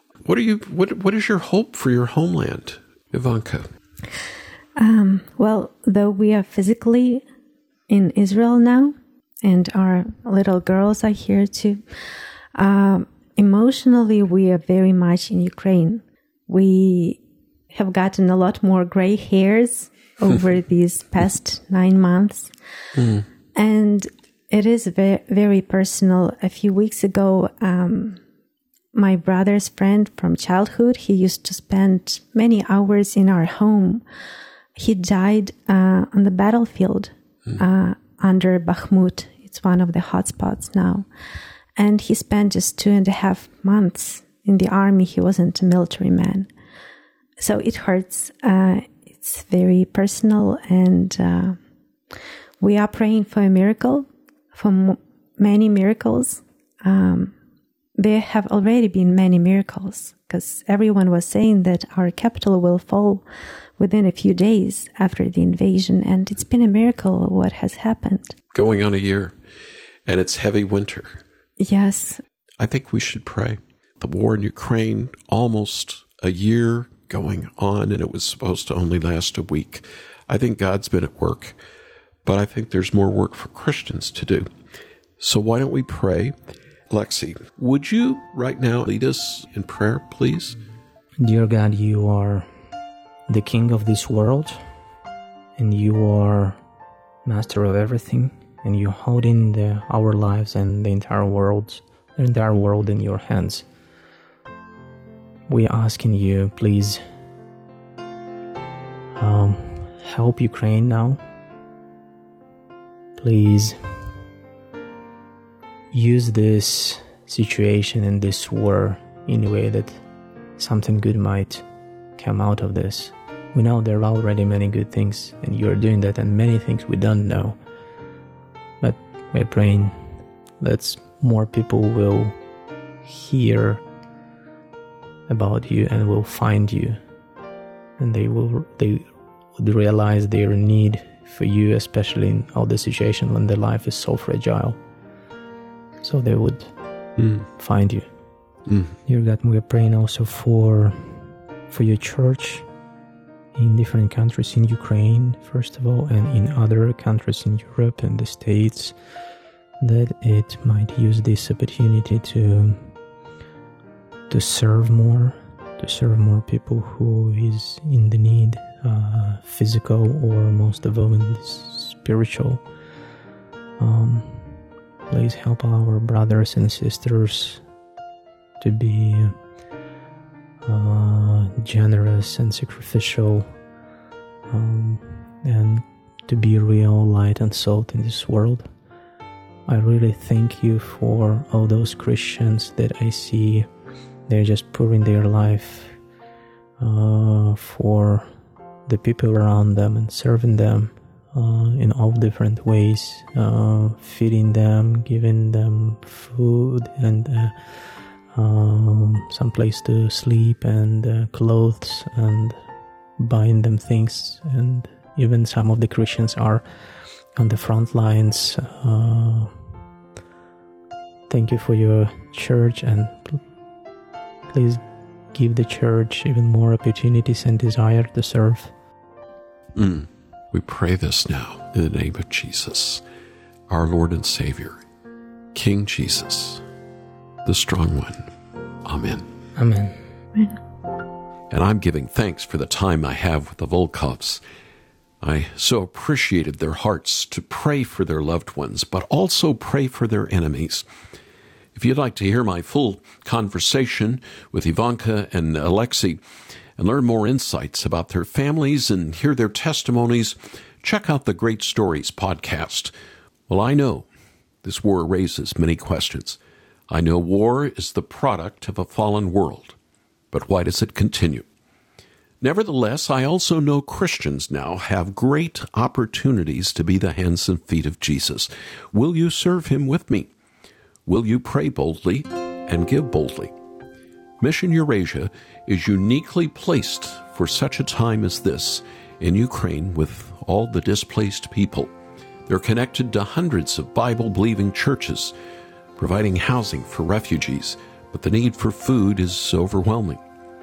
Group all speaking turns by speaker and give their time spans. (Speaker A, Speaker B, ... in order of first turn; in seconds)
Speaker A: 0.2-3.7, 23.0-23.2, 68.5-69.3, 70.1-71.2, 72.6-81.6, 82.2-84.5, 85.2-86.4, 86.9-90.6, 147.2-147.5, 229.8-233.0, 233.7-234.8, 235.5-236.6, 237.4-238.3, 238.8-239.3, 241.5-244.4, 245.2-250.9, 251.8-256.2, 256.8-262.9, 263.5-264.1, 264.6-266.4, 266.9-269.8, 270.3-271.5, 272.4-280.3, 281.1-283.5, 284.4-291.9, 292.5-295.3, 296.0-300.2
Speaker B: 4.8-7.2, 7.9-11.8, 12.6-17.2, 17.7-22.5, 23.6-28.2, 28.9-34.0, 34.8-41.1, 41.8-46.5, 47.4-51.6, 52.6-57.3, 58.0-63.2, 63.8-68.3, 71.6-72.2
Speaker C: 91.2-92.5, 93.3-94.6, 95.6-96.6, 97.2-103.7, 105.5-107.0, 109.2-111.2, 113.2-113.8, 115.9-120.0, 120.6-121.7, 122.2-127.6, 128.8-130.0, 130.6-132.3, 133.0-133.8, 135.3-137.0, 138.0-144.8, 146.0-146.7, 147.5-148.1, 149.1-151.2, 151.7-152.7, 153.6-158.9, 159.8-162.9, 164.3-172.6, 173.8-174.5, 175.1-177.6, 178.6-179.3, 180.6-183.5, 184.5-188.7, 189.7-193.7, 194.3-196.0, 196.8-198.3, 198.9-207.6, 208.3-212.6, 213.2-216.6, 217.3-219.5, 221.3-223.4, 224.5-224.8, 225.3-228.7, 239.6-240.0